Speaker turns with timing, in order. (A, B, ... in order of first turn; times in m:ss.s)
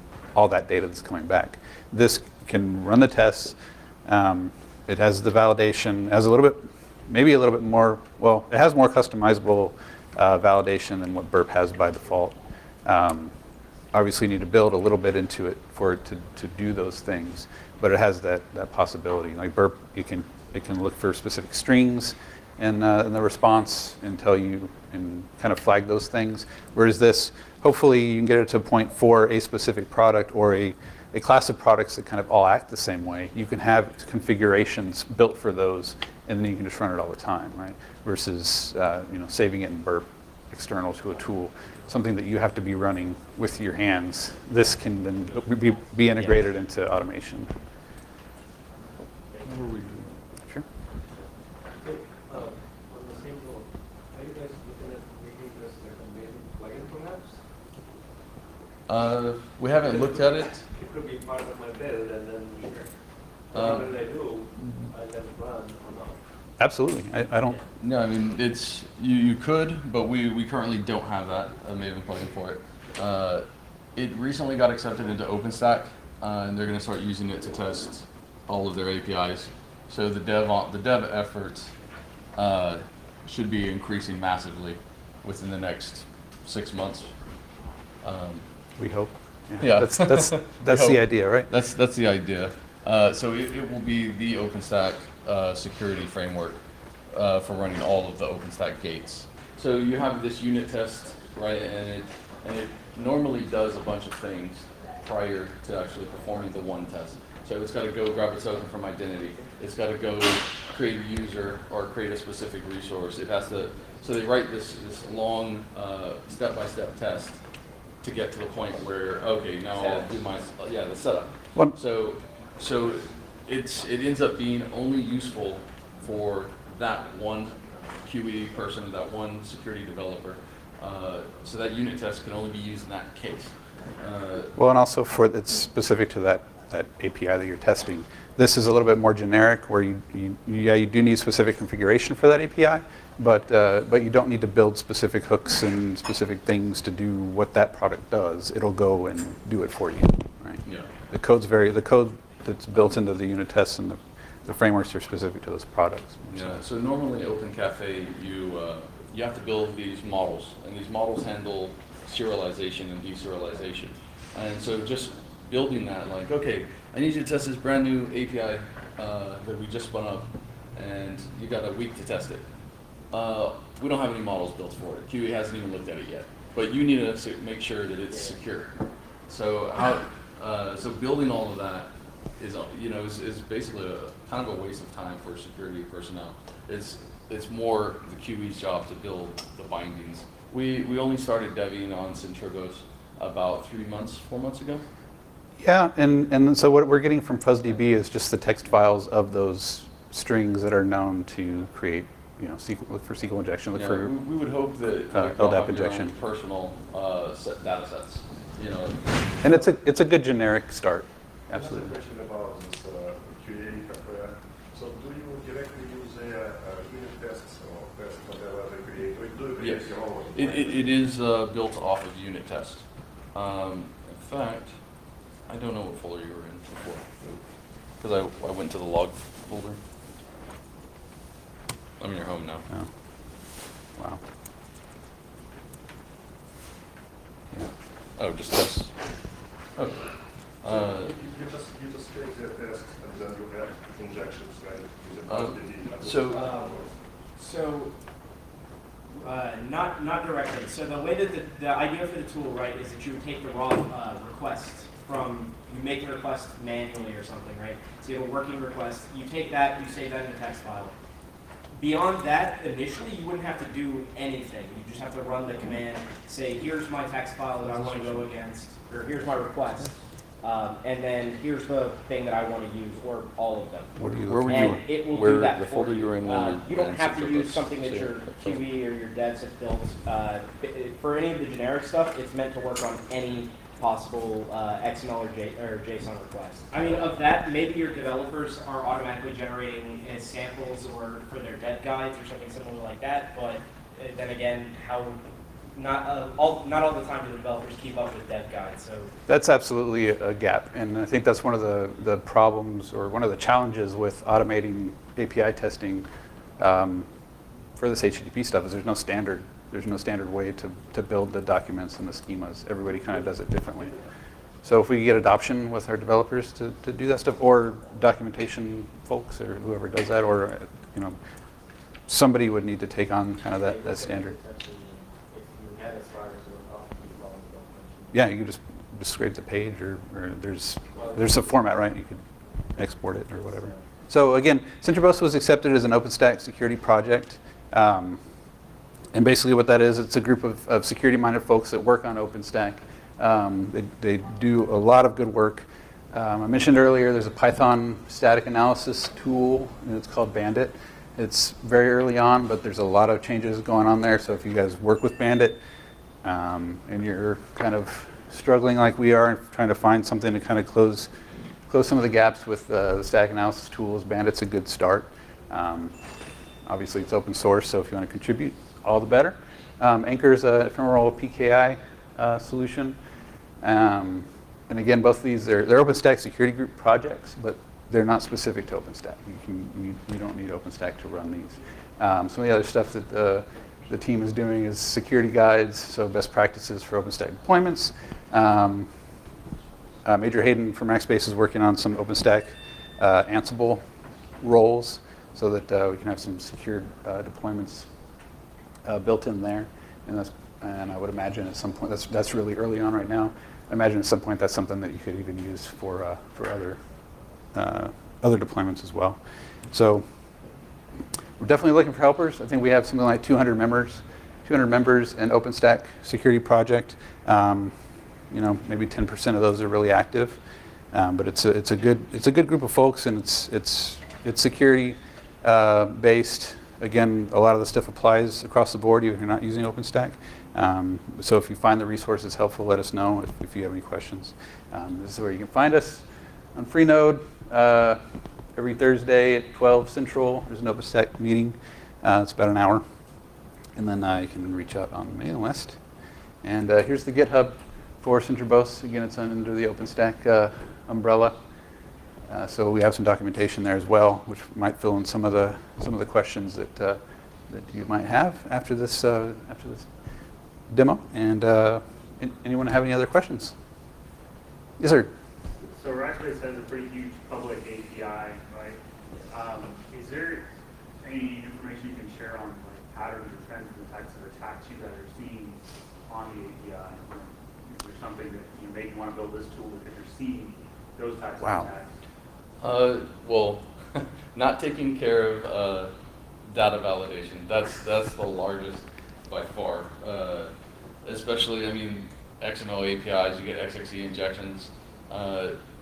0:00.3-0:13.3 A
0:13.9-0:47.5 A
0:49.4-0:50.2 B
0:51.8-0:53.6 C
0:54.2-0:57.2 C
0:58.9-1:00.6 B
1:00.8-1:01.6 C
1:02.2-1:02.7 C
1:03.5-1:04.0 B
1:03.6-1:04.0 C
1:06.6-1:07.6 A
1:07.8-1:21.8 B
1:22.3-1:27.5 B
1:28.0-1:28.5 B
1:28.8-1:31.5 A
1:29.6-1:57.4 B
1:58.0-2:14.5 B
1:59.8-2:00.1 C
2:14.6-2:36.6 A
2:30.6-2:30.9 B
2:36.3-2:52.5 B
2:53.1-3:14.9 B
2:58.1-2:58.4 C
3:15.6-3:24.1 A
3:23.7-3:29.4 B
3:25.1-3:26.1 A
3:29.4-3:32.0 A
3:31.5-3:41.0 D
3:39.6-3:44.8 B
3:45.5-3:47.3 B
3:48.0-3:49.8 B
3:52.0-3:52.6 B
3:54.0-3:54.2 A
3:58.2-3:59.1 B
3:59.8-4:01.1 B
4:00.6-4:06.9 D
4:05.3-4:06.5 B
4:06.3-4:06.8 E
4:07.4-4:07.9 E
4:09.1-4:21.0 E
4:21.8-4:55.2 E
4:27.8-4:28.2 B
4:34.0-4:34.8 A
4:34.3-4:38.6 B
4:55.8-4:59.1 E
4:59.3-5:06.1 A
5:06.6-5:07.1 A
5:07.8-5:14.0 A
5:14.6-5:21.2 A
5:22.1-5:24.4 A
5:23.5-5:28.3 C
5:28.1-5:32.2 A
5:30.9-5:31.4 C
5:32.8-5:38.2 A
5:33.3-5:33.8 C
5:39.1-5:55.6 A
5:56.2-6:01.1 A
6:01.7-6:06.0 A
6:06.7-6:13.0 A
6:13.6-6:28.9 A
6:30.0-6:33.8 A
6:34.4-6:37.9 A
6:38.8-6:46.8 A
6:47.5-6:49.2 A
6:49.7-6:50.1 A
6:51.4-6:57.8 A
6:58.3-7:00.4 A
7:00.9-7:18.0 A
7:18.6-7:22.8 A
7:23.8-7:25.8 A
7:26.4-7:31.4 A
7:32.3-7:39.9 A
7:40.7-7:43.6 A
7:44.8-7:45.1 A
7:45.7-7:50.5 F
7:51.0-8:01.9 F
8:01.4-8:01.7 A
8:02.6-8:05.9 B
8:06.5-8:10.5 B
8:11.0-8:15.6 B